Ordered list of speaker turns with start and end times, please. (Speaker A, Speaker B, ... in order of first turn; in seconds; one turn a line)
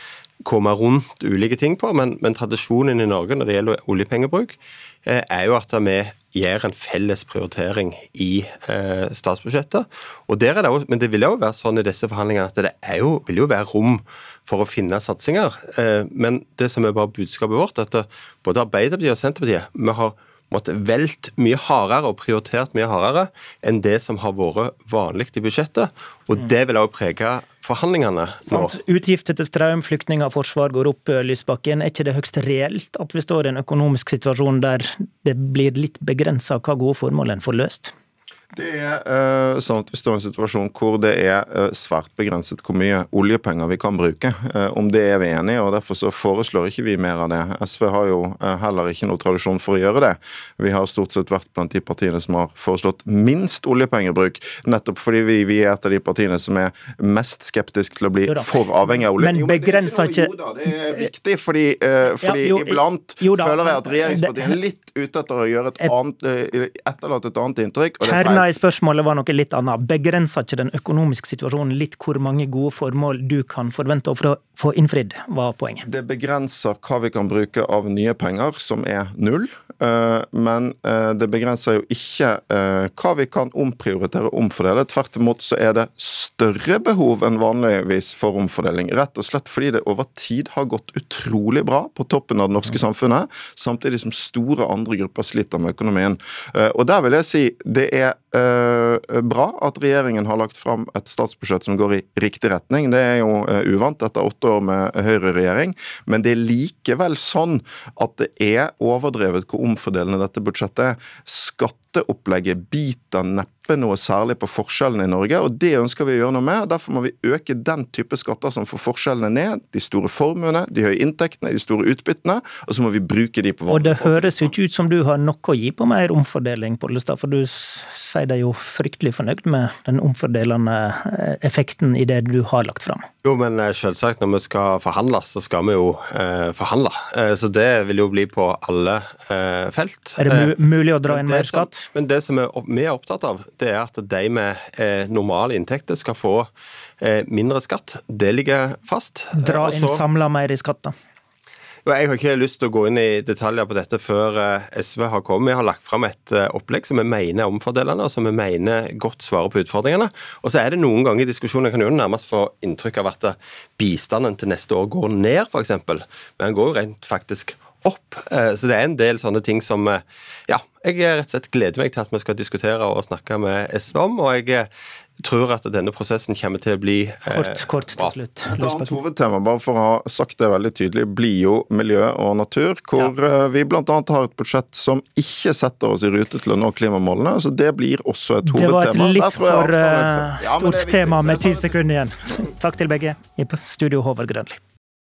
Speaker A: 0.4-28.7
Speaker B: 28.5-37.9
Speaker C: 38.5-68.5
Speaker B: 58.3-61.1
Speaker B: 62.1-64.6
Speaker B: 68.0-75.9
Speaker C: 75.8-124.5
Speaker B: 123.7-133.1
Speaker A: 133.2-140.5
Speaker B: 140.2-141.9
Speaker A: 141.1-150.0
Speaker B: 149.3-150.9
Speaker A: 151.8-174.7
Speaker A: 175.2-178.1
Speaker B: 177.3-179.0
Speaker C: 178.5-191.8
Speaker B: 188.4-194.6